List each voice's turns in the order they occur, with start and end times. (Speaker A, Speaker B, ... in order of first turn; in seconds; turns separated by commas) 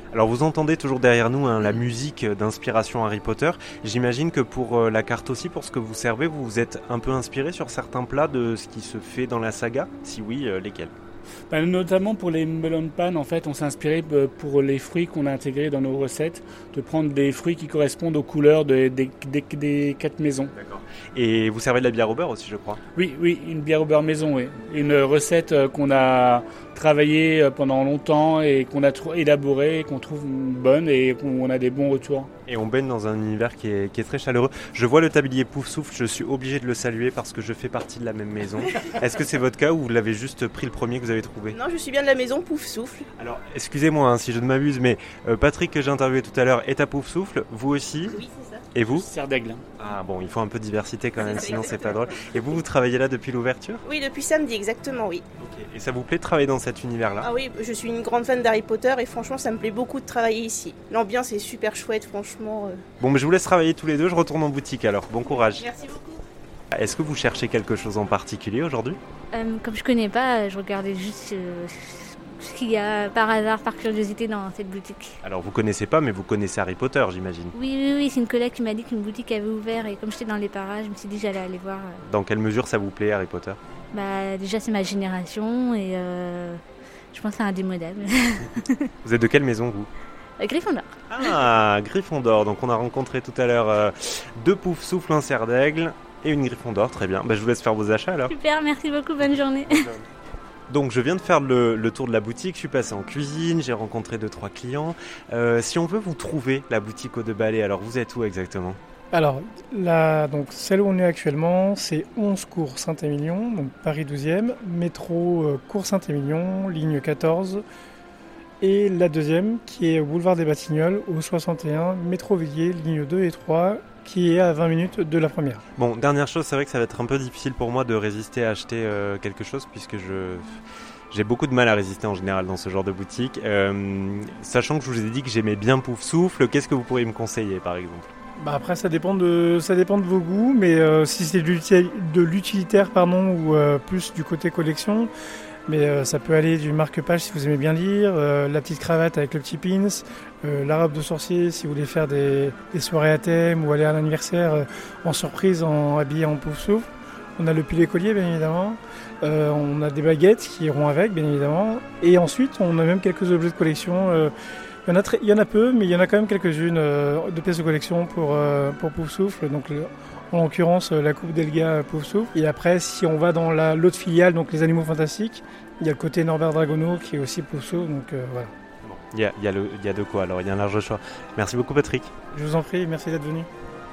Speaker A: 0.1-10.9, Speaker B: 11.5-20.5, Speaker A: 20.5-22.8, Speaker B: 23.0-32.3, Speaker A: 32.5-41.6, Speaker C: 41.5-43.0, Speaker A: 43.2-48.2, Speaker C: 48.1-48.7, Speaker A: 48.7-49.1, Speaker B: 48.9-49.6, Speaker A: 49.8-53.8, Speaker C: 51.2-52.4, Speaker C: 53.9-55.2, Speaker A: 55.4-57.3, Speaker C: 57.2-62.8, Speaker A: 63.0-65.7, Speaker C: 65.4-66.2, Speaker A: 66.7-69.0, Speaker D: 69.3-75.2, Speaker A: 75.2-77.5, Speaker D: 77.5-82.0, Speaker A: 82.1-83.6, Speaker D: 83.9-86.6, Speaker D: 87.1-88.9, Speaker A: 89.0-89.9, Speaker D: 90.4-91.0, Speaker A: 91.1-98.3, Speaker D: 98.3-99.8, Speaker A: 99.7-100.0, Speaker A: 100.7-108.8, Speaker E: 109.1-117.6, Speaker E: 118.6-125.6, Speaker A: 125.8-130.6, Speaker A: 131.1-138.1, Speaker E: 138.4-145.1, Speaker E: 145.7-156.9, Speaker E: 157.4-164.3, Speaker E: 164.9-178.5, Speaker A: 178.8-182.1, Speaker E: 182.3-183.5